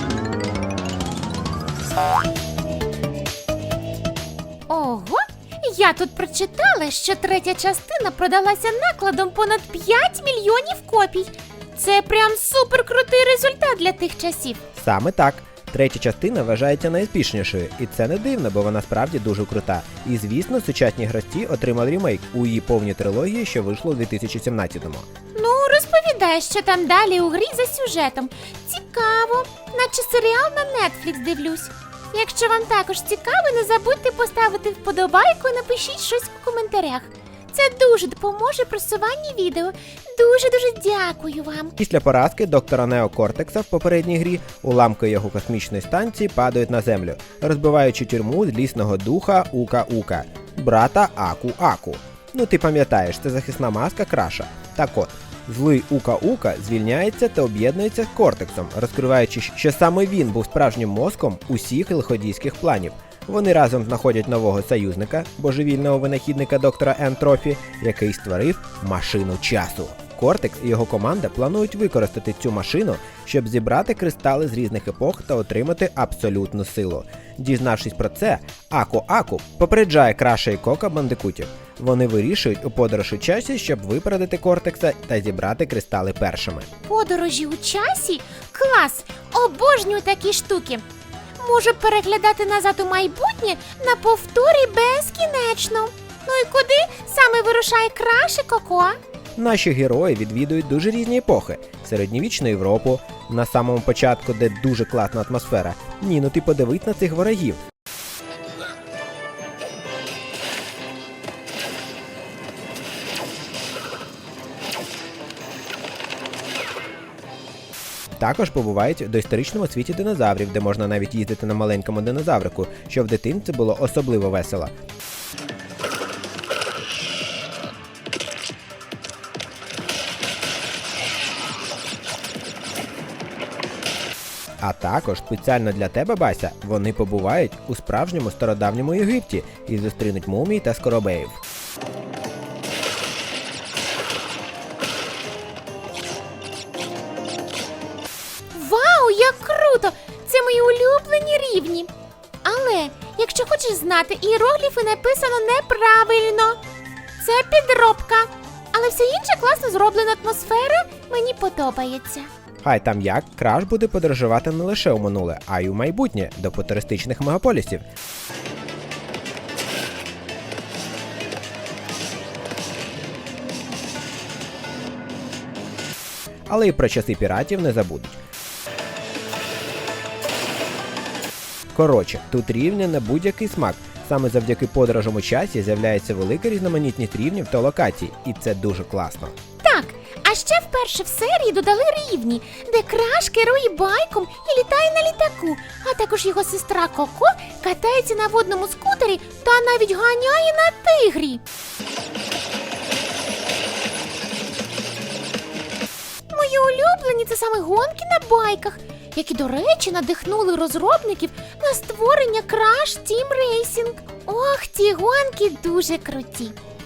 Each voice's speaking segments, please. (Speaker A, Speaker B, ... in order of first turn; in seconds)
Speaker A: 4.7-14.6, 25.3-41.7, 86.9-90.8, 91.4-99.0, 148.5-151.9, 152.4-156.6, 157.2-162.3, 189.6-201.4, 206.3-216.6
Speaker B: 14.7-25.1, 41.8-86.7, 99.3-107.6, 118.2-124.7, 134.6-141.4, 162.6-167.8, 176.5-178.2, 181.7-189.3